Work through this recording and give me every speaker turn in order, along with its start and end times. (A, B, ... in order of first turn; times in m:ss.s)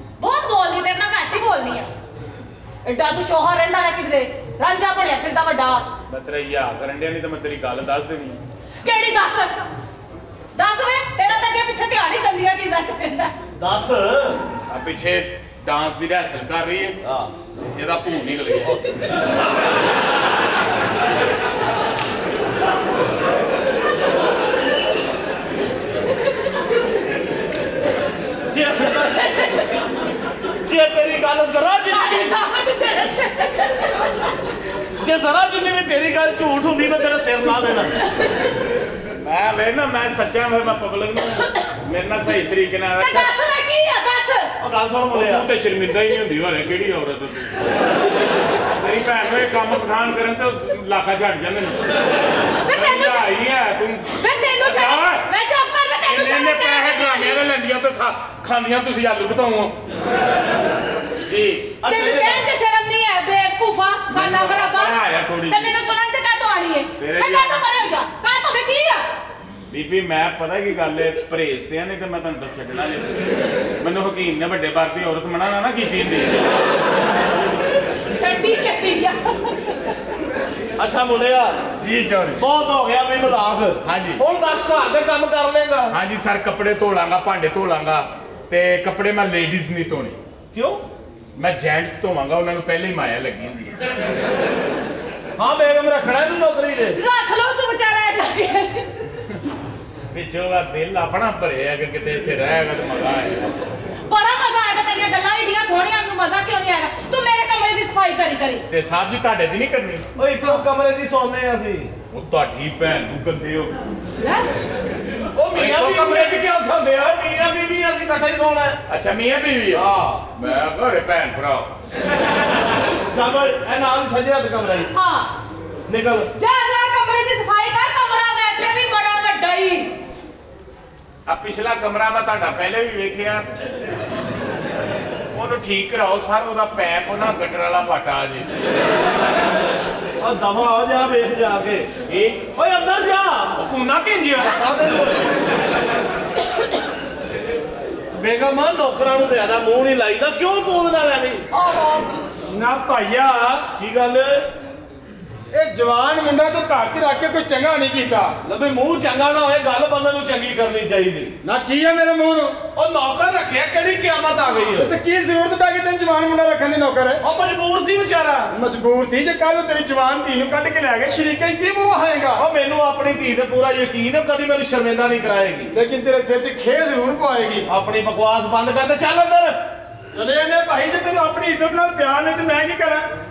0:00.2-0:01.9 A
0:02.8-0:05.9 A
0:06.1-0:08.4 B
0:08.8-0:09.6 A
0:10.6-0:13.3 A
0:13.6-0:14.4 C
0:14.7-0:17.0 B
0:17.7-0:19.0 B
0:28.5-0:29.3 C
0:30.6-0:32.3 C
0:31.9-0:33.9 A
0:35.0-0:37.9 C
0:39.2-0:43.3 B
0:43.0-0:44.5 A
0:44.6-0:45.5 C
0:45.1-0:47.7 B
0:48.8-0:52.0 B
0:52.6-0:53.3 A
0:52.7-0:55.2 B
0:54.2-0:57.4 A
0:56.0-0:59.8 B
1:01.2-1:01.8 B
1:01.8-1:02.4 C
1:01.8-1:09.0 A
1:04.1-1:05.7 B
1:07.0-1:07.6 B
1:09.7-1:13.3 B
1:13.8-1:16.4 B
1:18.1-1:19.6 A
1:20.8-1:21.6 C
1:21.8-1:22.4 B
1:22.4-1:25.9 C
1:23.8-1:24.2 B
1:25.9-1:30.2 B
1:30.5-1:30.8 C
1:31.4-1:33.8 B
1:35.4-1:37.0 C
1:37.0-1:38.9 A
1:40.1-1:43.6 B
1:44.1-1:48.6 A
1:48.7-1:50.1 B
1:50.2-1:51.9 C
1:52.1-1:53.8 B
1:54.2-1:54.5 A
1:55.4-1:58.8 C
1:55.5-1:56.7 B
1:58.9-2:01.7 B
1:59.7-2:00.2 C
2:03.1-2:04.9 C
2:04.9-2:05.3 A
2:05.9-2:06.3 C
2:06.4-2:09.9 A
2:11.3-2:13.5 B
2:15.3-2:18.5 B
2:20.2-2:21.9 C
2:22.1-2:22.5 B
2:22.6-2:23.5 C
2:23.6-2:24.6 B
2:24.4-2:25.2 C
2:28.2-2:31.5 C
2:31.6-2:32.2 A
2:32.5-2:34.5 C
2:32.6-2:33.4 D
2:35.5-2:38.4 D
2:38.4-2:41.4 C
2:41.4-2:42.6 D
2:42.8-2:44.9 C
2:44.8-2:47.2 D
2:47.2-2:48.5 C
2:48.5-2:52.5 D
2:52.4-2:55.7 C
2:55.7-2:57.7 D
2:57.7-2:59.6 C
3:00.2-3:03.1 D